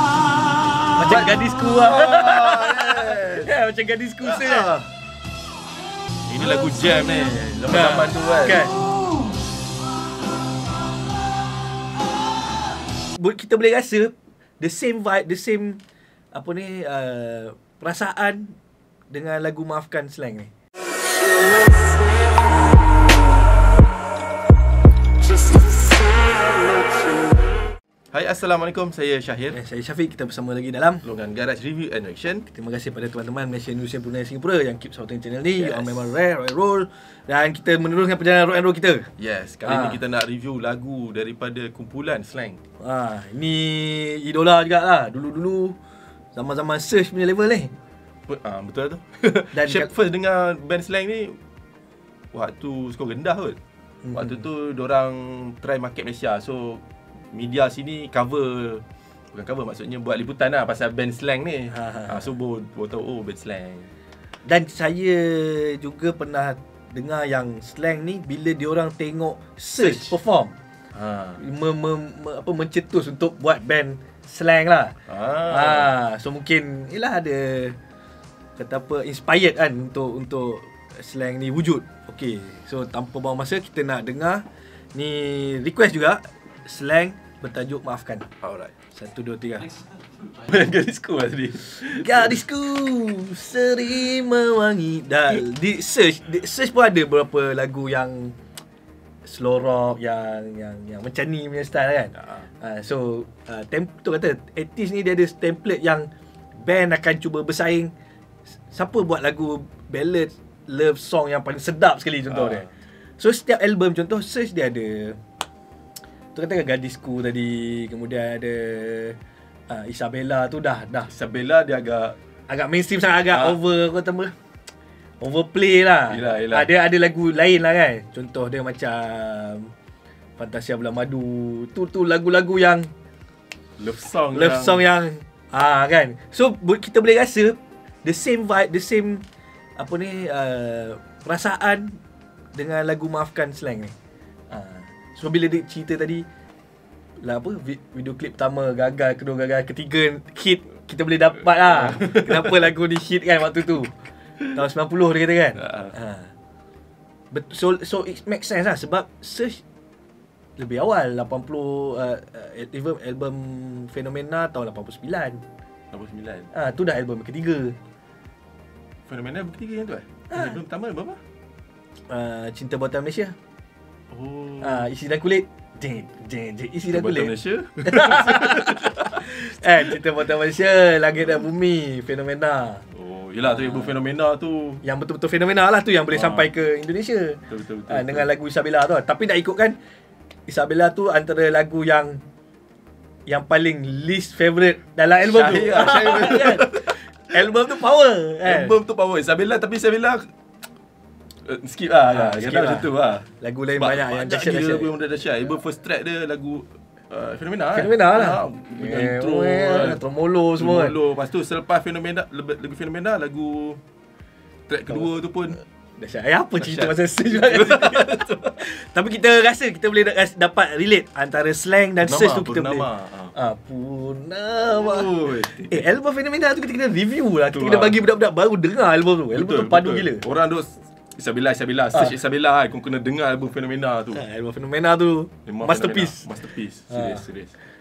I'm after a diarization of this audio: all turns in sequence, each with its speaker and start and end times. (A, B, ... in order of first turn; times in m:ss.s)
0:00.9-0:04.7 A
0:01.0-0:03.5 B
0:04.2-0:04.9 B
0:06.3-0:08.7 B
0:07.7-0:08.8 A
0:13.1-0:15.8 A
0:16.3-0:18.6 A
0:19.1-0:20.5 A
0:28.1-0:29.6 B
0:29.5-0:31.0 A
0:31.0-0:32.5 B
0:32.5-0:39.1 A
0:35.6-0:35.9 B
0:39.2-0:42.6 B
0:39.7-0:40.0 A
0:42.8-0:45.8 A
0:46.3-0:47.7 A
0:48.3-0:51.4 B
0:49.5-0:49.9 A
0:52.3-0:53.6 B
0:54.0-0:54.4 A
0:54.1-1:03.9 B
1:01.7-1:02.2 A
1:04.4-1:10.6 A
1:09.8-1:10.1 B
1:10.9-1:11.4 B
1:11.4-1:15.0 A
1:15.1-1:15.9 B
1:15.5-1:17.8 A
1:18.6-1:28.3 A
1:28.4-1:28.7 B
1:28.9-1:29.7 A
1:30.3-1:32.4 B
1:31.8-1:38.4 A
1:39.2-1:47.9 A
1:48.7-1:55.2 A
1:52.3-1:52.6 B
1:56.3-1:59.2 A
1:59.7-2:01.1 A
2:01.1-2:02.2 B
2:02.5-2:04.3 A
2:03.3-2:03.6 B
2:05.2-2:09.7 A
2:06.1-2:06.7 B
2:10.4-2:12.9 A
2:13.8-2:14.9 B
2:14.3-2:19.2 A
2:19.8-2:22.0 A
2:22.5-2:23.9 A
2:24.5-2:26.2 A
2:27.2-2:33.9 A
2:31.8-2:32.6 B
2:34.5-2:36.3 A
2:35.6-2:35.9 B
2:37.3-2:39.6 A
2:40.6-2:45.4 A
2:45.9-2:46.5 B
2:46.5-2:47.8 A
2:49.1-2:51.2 B
2:52.1-2:53.3 A
2:54.1-2:54.8 B
2:54.6-2:57.3 A
2:56.9-2:59.3 B
2:57.8-3:02.8 A
3:02.9-3:04.8 B
3:03.5-3:03.9 A
3:04.8-3:09.8 A
3:06.1-3:06.5 B
3:07.5-3:08.3 B
3:10.5-3:12.2 A
3:13.3-3:18.8 A
3:15.2-3:17.5 B
3:18.4-3:20.2 B
3:21.4-3:30.0 B
3:22.1-3:22.9 A
3:23.4-3:24.9 A
3:27.8-3:30.9 A
3:30.6-3:33.8 B
3:34.7-3:35.6 B
3:36.0-3:50.2 A
3:36.6-3:38.6 B
3:42.0-3:43.3 B
3:44.7-3:45.8 B
3:47.5-3:48.0 B
3:49.3-3:54.2 B
3:54.1-3:56.2 A
3:55.5-3:57.6 B
3:56.9-3:57.2 A